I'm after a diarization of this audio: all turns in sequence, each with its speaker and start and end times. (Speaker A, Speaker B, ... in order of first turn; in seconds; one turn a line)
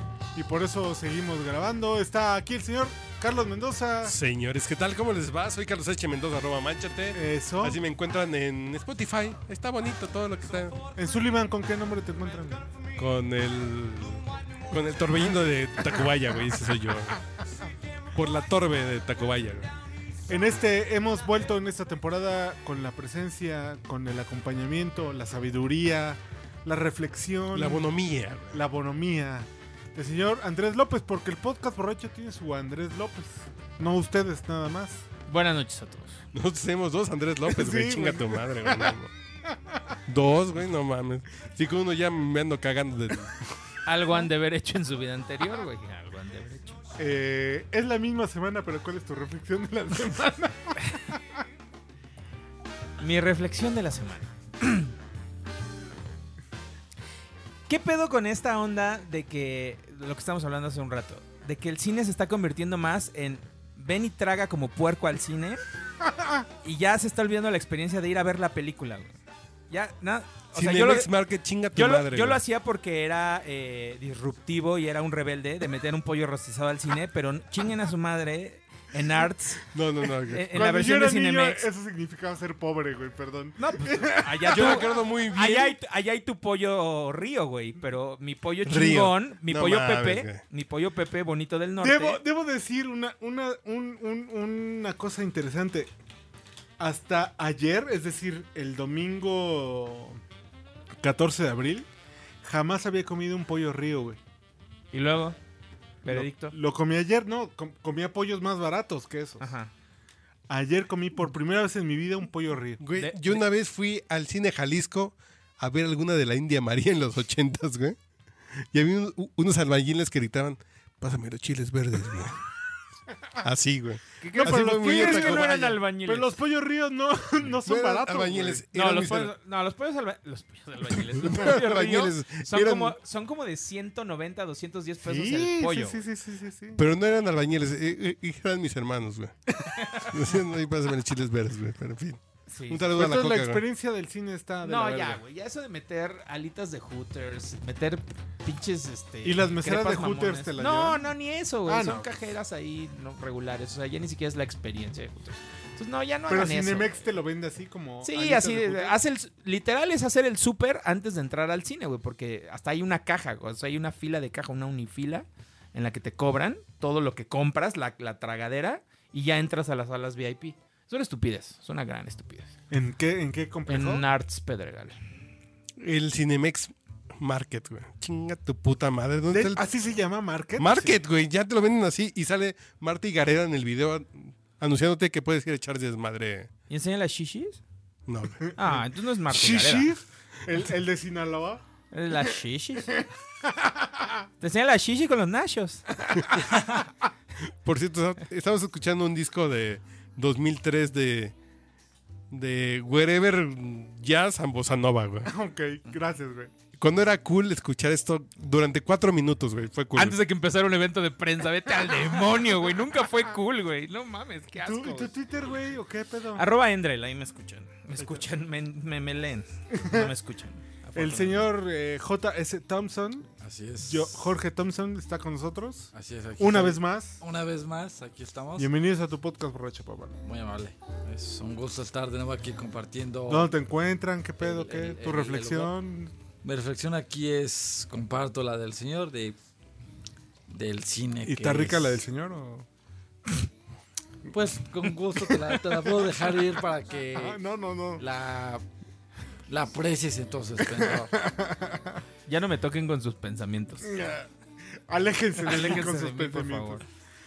Speaker A: 0.3-4.2
Speaker B: 4.0-10.8
Speaker A: 7.1-7.8
Speaker A: 10.9-12.7
Speaker B: 13.0-17.2
Speaker B: 18.1-19.7
Speaker A: 20.3-27.9
Speaker B: 27.5-28.7
Speaker A: 28.5-35.0
Speaker C: 35.3-36.2
Speaker B: 36.3-39.1
Speaker A: 37.5-39.9
Speaker B: 40.1-43.4
Speaker C: 43.9-46.8
Speaker A: 47.0-51.2
Speaker C: 53.0-54.9
Speaker C: 57.7-65.6
Speaker C: 66.6-69.1
Speaker C: 69.7-71.1
Speaker B: 70.5-72.4
Speaker C: 71.7-81.7
Speaker B: 79.7-80.5
Speaker A: 80.5-84.9
Speaker C: 83.6-92.2
Speaker B: 84.5-85.8
Speaker B: 88.6-90.4
Speaker A: 91.8-95.9
Speaker A: 96.8-100.2
Speaker A: 101.0-101.9
Speaker A: 102.4-104.2
Speaker C: 104.9-105.3
Speaker C: 106.0-106.5
Speaker A: 106.1-109.4
Speaker C: 109.4-109.7
Speaker A: 110.5-112.8
Speaker B: 112.8-118.0
Speaker C: 112.9-113.5
Speaker B: 118.7-122.4
Speaker B: 123.4-125.5
Speaker C: 124.2-126.3
Speaker A: 124.3-128.7
Speaker B: 127.6-129.3
Speaker C: 128.7-136.0
Speaker B: 131.1-132.9
Speaker A: 135.0-136.8
Speaker B: 136.7-139.3
Speaker C: 139.8-140.1
Speaker B: 140.0-143.6
Speaker C: 142.5-142.9
Speaker A: 142.9-145.2
Speaker C: 144.6-157.0
Speaker A: 149.2-151.1
Speaker A: 151.7-152.2
Speaker A: 156.3-158.9
Speaker C: 158.0-172.5
Speaker A: 172.7-174.1
Speaker C: 173.7-174.9
Speaker B: 175.8-179.7
Speaker A: 179.3-181.0
Speaker B: 180.6-186.5
Speaker C: 186.7-187.6
Speaker B: 188.1-188.6
Speaker A: 188.5-191.6
Speaker C: 188.6-189.9
Speaker C: 191.9-192.9
Speaker A: 193.5-194.2
Speaker C: 194.4-195.8
Speaker A: 196.0-196.8
Speaker B: 197.6-201.3
Speaker B: 202.3-205.3
Speaker A: 205.2-206.5
Speaker B: 206.8-210.2
Speaker C: 209.9-215.2
Speaker A: 214.6-216.4
Speaker C: 216.3-221.5
Speaker A: 219.7-220.1
Speaker A: 220.9-223.3
Speaker D: 223.4-224.3
Speaker A: 223.8-227.2
Speaker D: 225.9-228.7
Speaker A: 228.6-230.2
Speaker D: 230.2-233.5
Speaker A: 233.3-236.1
Speaker D: 234.4-235.7
Speaker D: 236.4-239.4
Speaker D: 240.5-242.0
Speaker A: 241.2-242.7
Speaker D: 244.3-247.4
Speaker A: 247.1-248.0
Speaker D: 248.0-248.6
Speaker D: 249.5-251.2
Speaker A: 250.7-252.0
Speaker C: 252.3-253.9
Speaker A: 253.8-254.3
Speaker A: 254.9-256.8
Speaker C: 255.4-256.8